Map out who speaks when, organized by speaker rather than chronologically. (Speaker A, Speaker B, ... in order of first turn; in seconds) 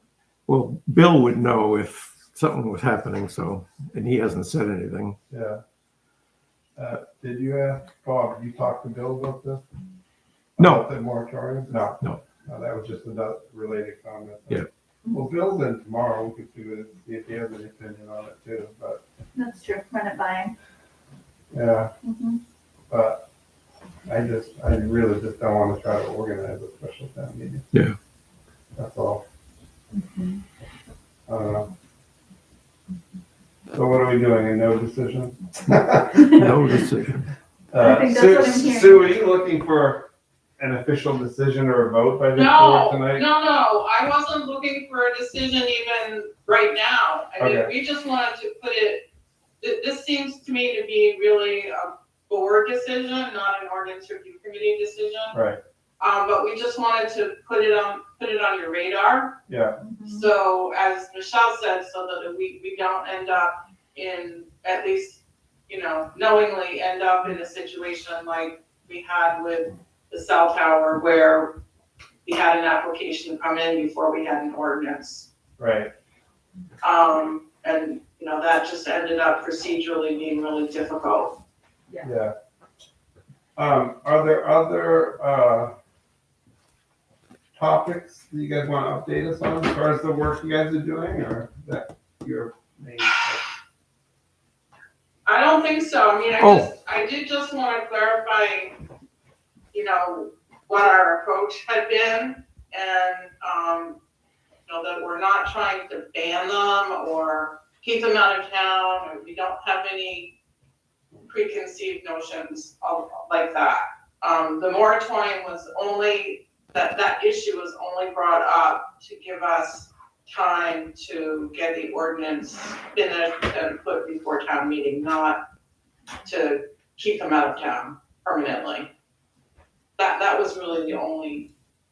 Speaker A: 0.5-5.2, 10.6-10.9, 36.4-37.3, 96.4-96.7
Speaker B: 5.3-5.6, 6.8-9.6, 10.6-19.0, 21.5-21.9, 22.9-23.2, 24.1-27.7, 28.8-29.2, 31.3-31.7, 33.7-36.8, 37.7-43.2, 47.4-47.7, 55.3-55.6, 59.5-59.8, 75.6-75.9, 82.0-82.3, 83.6-85.7, 87.6-93.5
Speaker C: 19.4-20.6, 22.0-22.4, 30.0-30.4, 37.8-39.0, 59.8-60.3
Speaker D: 42.4-49.0, 49.6-55.4, 56.0-59.4, 60.0-71.6, 72.2-75.3, 76.8-81.4, 95.2-98.8, 99.7-104.0, 104.7-110.3, 111.2-125.4, 126.2-128.9, 130.0-131.5